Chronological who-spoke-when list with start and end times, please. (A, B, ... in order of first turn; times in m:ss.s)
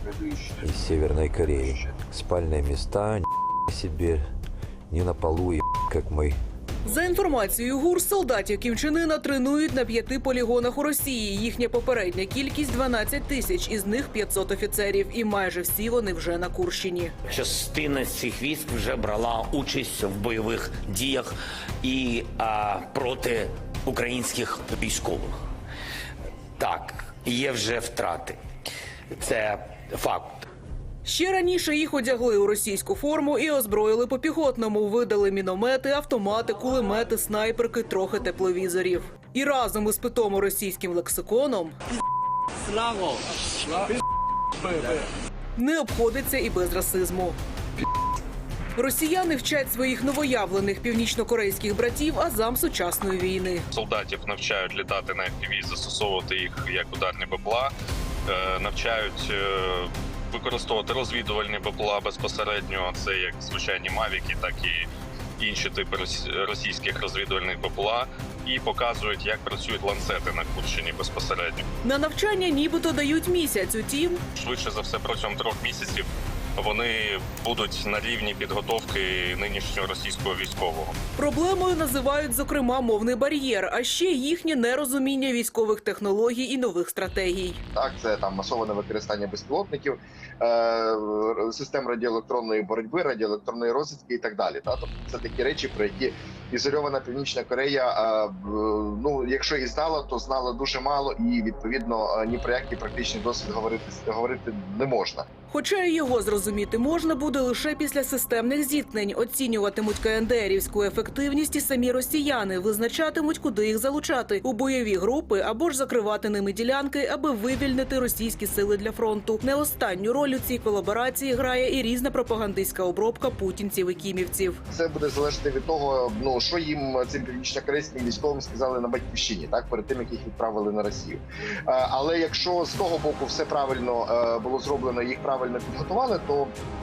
0:00.6-0:04.2 A
0:04.9-0:06.4 A
0:06.8-0:17.1 B
0:17.3-0:25.3 C
0:26.6-0:28.4 C
0:29.2-0:30.4 C
0:31.0-0:41.8 B
0:45.6-0:47.4 B
0:48.8-0:53.6 B
0:53.7-0:57.7 D
0:58.3-1:04.9 D
1:05.4-1:11.6 D
1:11.8-1:14.2 B
1:14.3-1:21.0 D
1:21.2-1:27.6 B
1:27.7-1:45.2 E
1:45.5-2:04.6 B
2:04.7-2:16.5 E